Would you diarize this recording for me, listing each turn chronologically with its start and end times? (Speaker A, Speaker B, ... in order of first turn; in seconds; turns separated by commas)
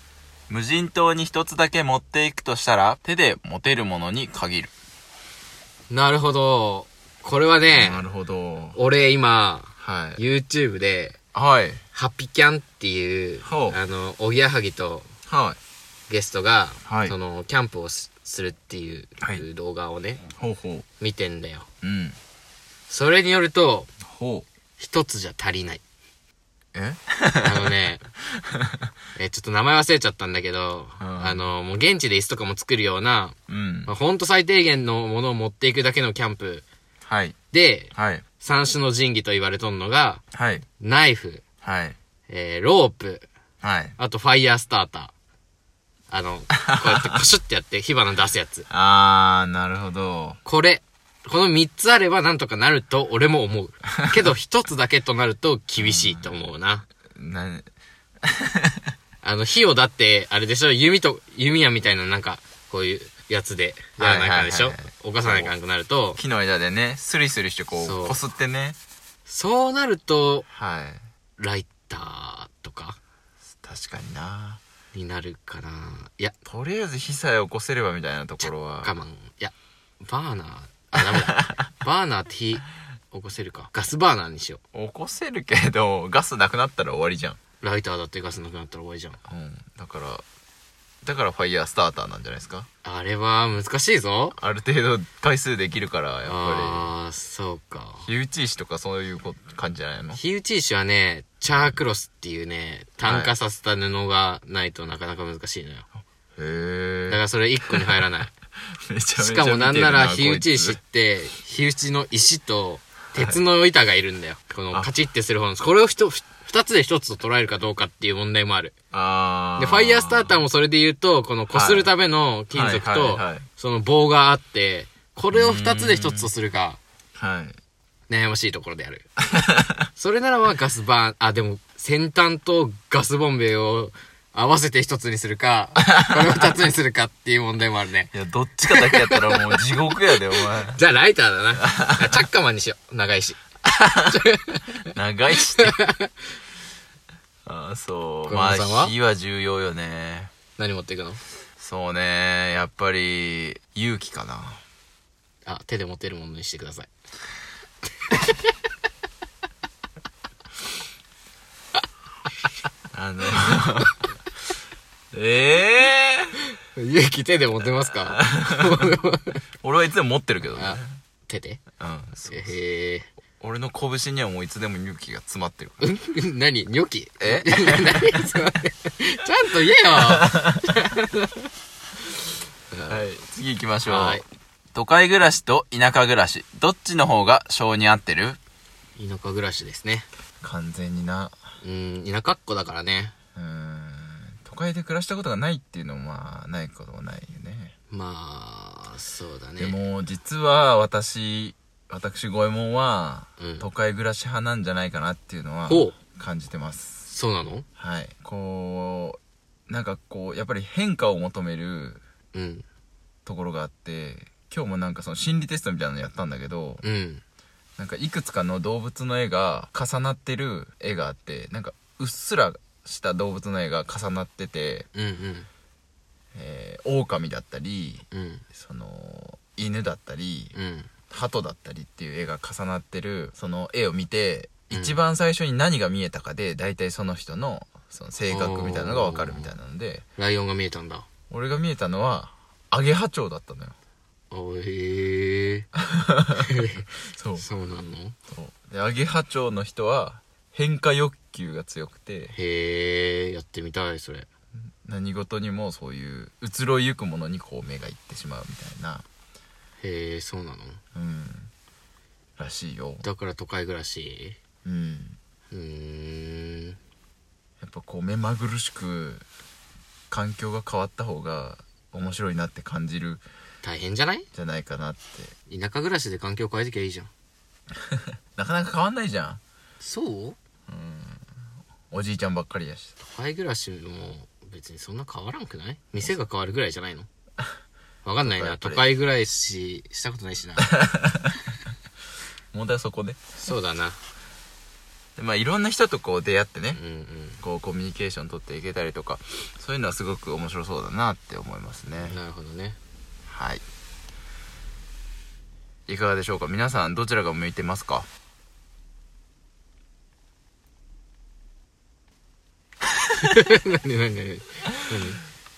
Speaker A: 0.5-4.7, Speaker B: 5.9-8.1, Speaker A: 7.7-8.8, Speaker B: 8.8-11.2, Speaker A: 9.8-10.2, Speaker A: 11.3-11.8, Speaker B: 11.9-15.1, Speaker A: 13.4-13.8, Speaker A: 15.3-15.6, Speaker B: 16.1-20.2, Speaker A: 16.9-17.1, Speaker A: 19.2-19.4, Speaker A: 20.4-20.9, Speaker B: 21.0-21.7, Speaker A: 21.8-22.2, Speaker B: 22.9-23.9, Speaker A: 24.1-24.5, Speaker B: 24.8-25.8, Speaker A: 26.7-27.7, Speaker B: 27.4-28.1, Speaker B: 29.2-33.4, Speaker A: 31.0-31.5, Speaker A: 33.5-33.9, Speaker B: 33.9-36.6, Speaker A: 37.1-37.4, Speaker B: 37.5-40.2, Speaker A: 37.9-38.2, Speaker A: 40.3-40.6, Speaker B: 40.8-41.4, Speaker A: 41.6-42.0, Speaker B: 42.3-43.3, Speaker A: 43.6-44.0, Speaker B: 44.0-45.1, Speaker B: 46.1-48.7, Speaker A: 46.6-47.2, Speaker A: 48.7-50.4, Speaker B: 50.5-56.9, Speaker A: 55.8-56.4, Speaker A: 57.1-57.7, Speaker A: 58.2-58.8, Speaker B: 59.2-66.2, Speaker A: 64.0-65.5, Speaker A: 66.2-68.8, Speaker B: 67.7-68.2, Speaker B: 69.3-70.5, Speaker A: 70.5-71.0, Speaker B: 71.4-73.0, Speaker A: 73.6-74.6, Speaker B: 74.9-76.4, Speaker A: 76.5-79.0, Speaker B: 78.4-84.6, Speaker A: 84.7-87.4, Speaker B: 87.6-89.2, Speaker A: 89.3-90.2, Speaker A: 91.0-92.7, Speaker B: 92.8-94.4, Speaker A: 94.3-96.9, Speaker B: 96.2-98.1, Speaker A: 98.0-100.2, Speaker B: 100.1-105.9, Speaker A: 103.0-103.3, Speaker A: 106.4-108.1, Speaker B: 107.1-108.3, Speaker A: 108.7-110.8, Speaker B: 109.2-118.7, Speaker A: 118.9-120.4, Speaker B: 119.6-126.8, Speaker A: 121.5-121.9, Speaker A: 122.5-123.5, Speaker A: 125.3-126.3, Speaker A: 127.2-127.6, Speaker B: 128.1-129.1, Speaker A: 129.3-129.8, Speaker B: 129.9-138.1, Speaker A: 135.9-136.5, Speaker A: 138.1-140.8, Speaker B: 138.7-139.6, Speaker B: 140.7-143.4, Speaker A: 141.7-142.2, Speaker A: 143.7-144.2, Speaker B: 144.1-144.9, Speaker A: 144.9-145.8, Speaker B: 145.6-146.1, Speaker A: 147.5-150.3, Speaker B: 148.3-148.9, Speaker B: 150.6-151.2, Speaker A: 151.6-154.6, Speaker B: 155.5-156.9, Speaker B: 158.1-158.4, Speaker A: 162.9-164.0, Speaker A: 165.1-166.4, Speaker B: 166.8-169.4, Speaker A: 168.2-168.9, Speaker A: 169.6-170.9, Speaker B: 170.6-171.6, Speaker A: 171.8-172.6, Speaker B: 172.2-173.1, Speaker A: 173.4-175.9, Speaker B: 175.8-181.3, Speaker A: 177.2-178.4, Speaker A: 179.9-180.8, Speaker B: 182.7-183.0, Speaker A: 182.9-184.2, Speaker B: 183.8-184.2, Speaker A: 184.7-188.4, Speaker B: 189.0-190.1, Speaker A: 190.4-191.4, Speaker B: 191.6-193.1, Speaker A: 193.4-197.8, Speaker B: 197.9-199.8, Speaker A: 199.6-207.1, Speaker B: 203.4-203.7, Speaker B: 205.7-206.0, Speaker B: 207.1-207.7, Speaker A: 207.8-212.0, Speaker B: 212.3-212.7, Speaker A: 213.3-216.8, Speaker B: 216.8-217.2, Speaker A: 217.8-224.9, Speaker B: 224.9-225.5, Speaker A: 226.3-230.6, Speaker B: 228.1-228.4, Speaker B: 230.5-230.9, Speaker A: 231.1-240.1, Speaker B: 234.7-235.0, Speaker B: 238.2-239.5, Speaker B: 240.2-241.1, Speaker A: 241.3-243.8, Speaker B: 244.3-245.7, Speaker A: 245.8-247.5, Speaker B: 246.3-248.2, Speaker A: 248.3-252.3, Speaker B: 252.3-254.3, Speaker A: 254.8-259.1, Speaker B: 259.8-260.8, Speaker A: 260.9-261.5, Speaker A: 262.4-263.1, Speaker B: 263.0-264.4, Speaker A: 264.6-265.2, Speaker B: 265.5-266.8, Speaker A: 267.6-269.3, Speaker A: 270.1-273.2, Speaker B: 273.6-274.3, Speaker A: 274.3-275.3, Speaker B: 275.5-277.1, Speaker A: 277.9-279.4, Speaker B: 279.8-280.4, Speaker A: 280.7-281.3, Speaker A: 281.9-282.9, Speaker B: 283.0-287.1, Speaker B: 288.1-290.7, Speaker A: 288.2-288.9, Speaker A: 290.7-291.4, Speaker A: 292.5-293.4, Speaker B: 293.4-294.0, Speaker A: 295.2-296.8, Speaker B: 296.8-297.4, Speaker A: 297.4-302.2, Speaker B: 302.0-302.8, Speaker A: 303.3-303.6, Speaker A: 305.9-308.1, Speaker B: 313.2-315.2